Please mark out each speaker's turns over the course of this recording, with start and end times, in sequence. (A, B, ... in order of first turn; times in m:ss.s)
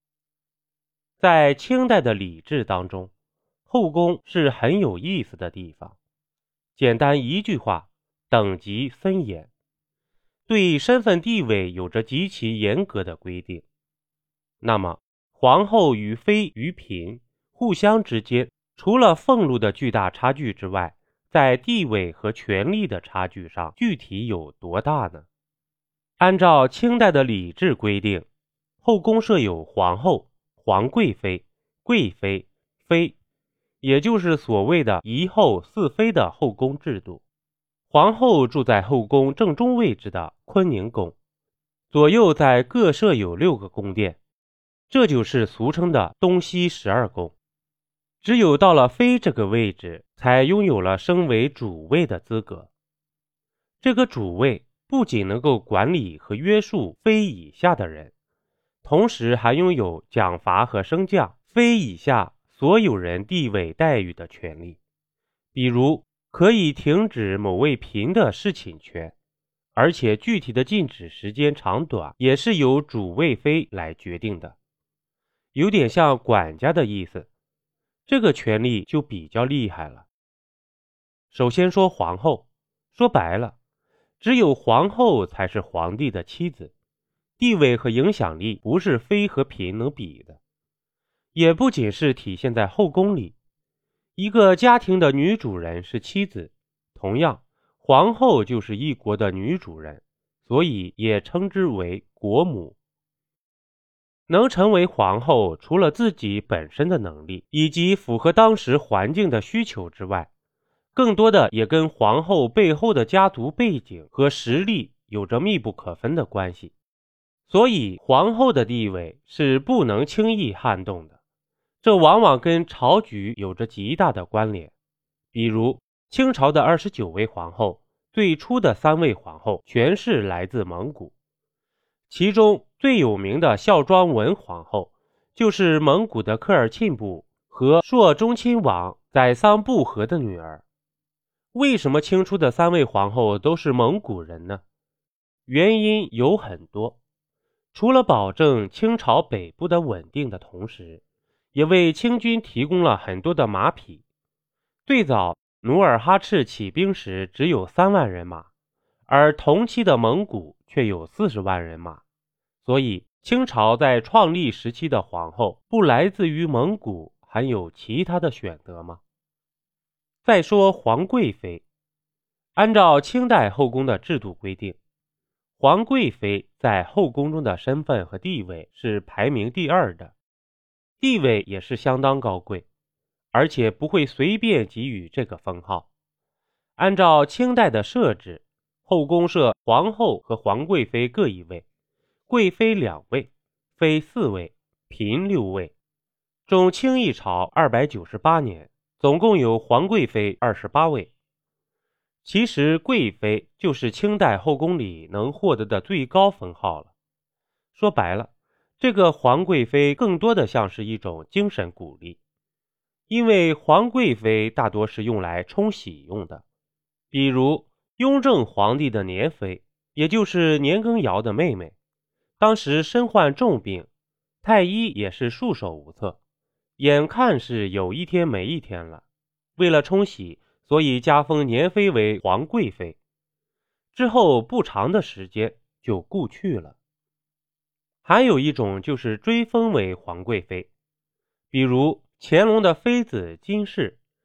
0:01.2-0:03.1 A
0:03.7-0:06.0 A
0:06.8-0:09.5 A
0:10.5-0:13.6 A
0:14.6-0:25.2 A
0:26.2-0:28.3 A
0:28.8-0:33.2 A
0:33.8-0:37.2 A
0:37.9-0:41.2 A
0:41.9-0:44.2 A
0:44.9-0:47.3 A
0:48.2-0:52.7 A
0:53.8-0:58.1 A
0:58.8-1:04.8 A
1:05.5-1:09.1 A
1:09.7-1:14.6 A
1:15.5-1:17.3 A
1:18.0-1:20.0 A
1:21.3-1:23.6 A
1:24.2-1:26.7 A
1:27.4-1:30.4 A
1:31.3-1:33.3 A
1:34.2-1:42.8 A
1:44.3-1:50.3 A
1:50.9-1:56.7 A
1:57.5-2:01.2 A
2:01.8-2:04.7 A
2:05.3-2:11.1 A
2:12.1-2:20.6 A
2:21.5-2:24.6 A
2:25.5-2:27.0 A
2:27.7-2:31.0 A
2:31.5-2:34.0 A
2:34.8-2:38.5 A
2:39.1-2:42.0 A
2:42.6-2:49.0 A
2:50.2-2:51.6 A
2:52.6-2:54.8 A
2:55.6-3:00.1 A
3:01.0-3:02.6 A
3:03.3-3:05.9 A
3:06.8-3:11.6 A
3:12.3-3:15.7 A
3:16.5-3:21.1 A
3:22.2-3:26.9 A
3:27.7-3:32.2 A
3:33.1-3:36.4 A
3:37.1-3:41.7 A
3:42.4-3:43.9 A
3:44.4-3:46.2 A
3:46.8-3:49.0 A
3:49.6-3:53.0 A
3:53.9-3:56.8 A
3:58.0-4:00.7 A
4:01.5-4:04.0 A